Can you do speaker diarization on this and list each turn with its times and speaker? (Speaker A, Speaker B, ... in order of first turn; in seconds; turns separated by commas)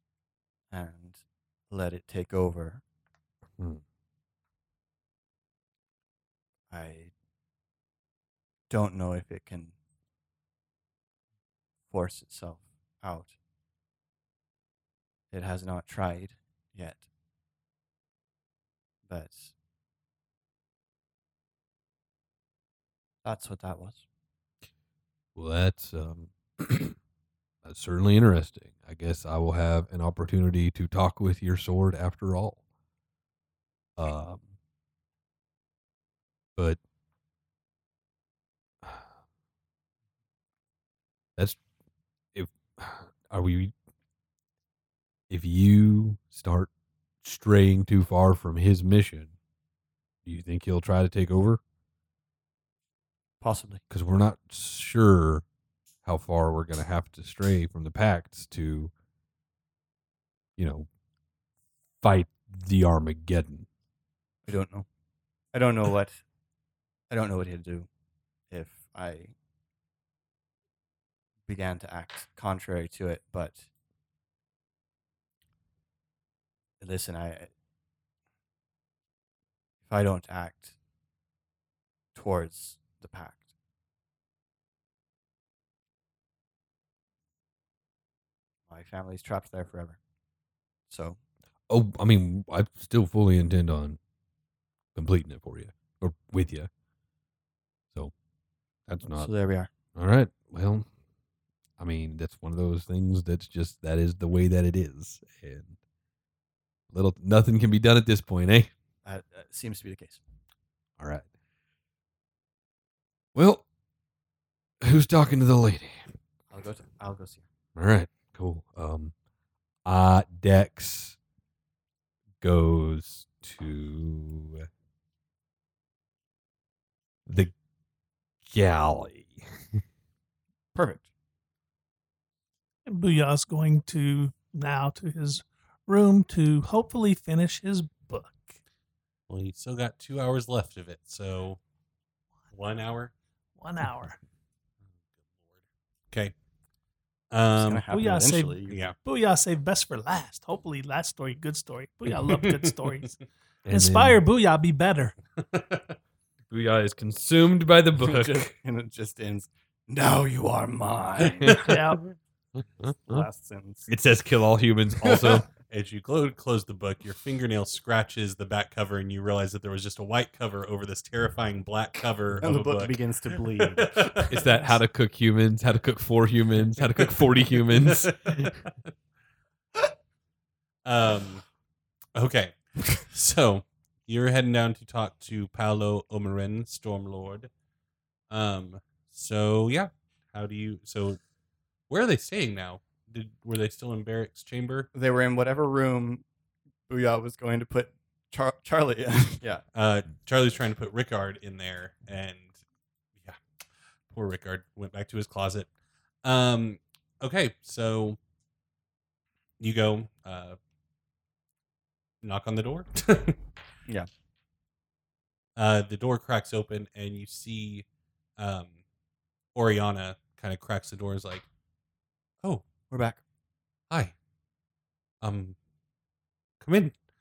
Speaker A: 0.7-2.8, Speaker A: 6.7-7.1, Speaker A: 8.7-9.7, Speaker A: 11.9-13.3, Speaker A: 15.3-17.1, Speaker A: 19.1-19.5, Speaker A: 23.2-24.0, Speaker B: 25.3-27.0, Speaker B: 27.6-32.6, Speaker B: 34.0-34.5, Speaker B: 38.8-39.1, Speaker B: 42.3-43.7, Speaker B: 45.3-46.7, Speaker B: 47.2-49.3, Speaker B: 50.2-51.6, Speaker A: 53.4-53.8, Speaker B: 53.9-55.4, Speaker B: 56.0-58.9, Speaker B: 60.6-60.9, Speaker B: 62.0-63.7, Speaker A: 64.5-64.9, Speaker A: 65.5-66.2, Speaker A: 67.1-67.9, Speaker A: 68.5-69.3, Speaker A: 71.5-73.7, Speaker A: 76.8-77.5, Speaker A: 79.8-80.8, Speaker A: 82.1-83.5, Speaker A: 88.7-90.0, Speaker A: 90.9-91.2, Speaker B: 91.7-94.0, Speaker B: 94.9-96.7, Speaker B: 98.9-99.3, Speaker A: 99.1-99.7, Speaker B: 99.9-100.9, Speaker B: 101.8-105.8, Speaker B: 106.9-108.7, Speaker A: 109.0-110.2, Speaker B: 111.0-111.2, Speaker B: 113.3-113.6, Speaker B: 114.8-116.1, Speaker A: 116.5-117.5, Speaker B: 117.7-119.1, Speaker B: 119.8-121.2, Speaker B: 122.4-124.7, Speaker B: 127.3-127.5, Speaker B: 128.4-129.8, Speaker A: 130.7-131.1, Speaker C: 132.8-138.6, Speaker D: 139.3-141.6, Speaker D: 142.5-143.1, Speaker C: 143.6-144.2, Speaker D: 147.3-147.8, Speaker A: 147.6-148.8, Speaker C: 147.9-153.2, Speaker D: 148.7-148.9, Speaker D: 152.2-153.1, Speaker B: 153.6-154.2, Speaker C: 153.7-155.1, Speaker D: 155.4-155.9, Speaker B: 156.5-158.5, Speaker A: 158.0-161.7, Speaker B: 161.4-161.7, Speaker C: 161.6-162.0, Speaker B: 162.6-163.2, Speaker A: 163.0-163.9, Speaker B: 163.9-165.5, Speaker A: 165.0-165.4, Speaker D: 165.7-174.3, Speaker A: 172.4-174.8, Speaker B: 174.3-178.6, Speaker D: 177.0-178.7, Speaker D: 180.8-181.4, Speaker D: 182.1-187.5, Speaker D: 188.3-191.2, Speaker D: 191.9-194.9, Speaker A: 194.9-196.2, Speaker A: 196.9-199.6, Speaker D: 199.7-202.5, Speaker D: 204.1-205.7, Speaker D: 206.2-208.2, Speaker D: 209.6-210.6, Speaker D: 212.2-213.4, Speaker D: 215.6-217.8, Speaker D: 218.4-218.8, Speaker D: 219.5-221.4, Speaker A: 222.9-223.2, Speaker D: 223.9-224.1, Speaker D: 225.2-225.6, Speaker D: 226.6-226.9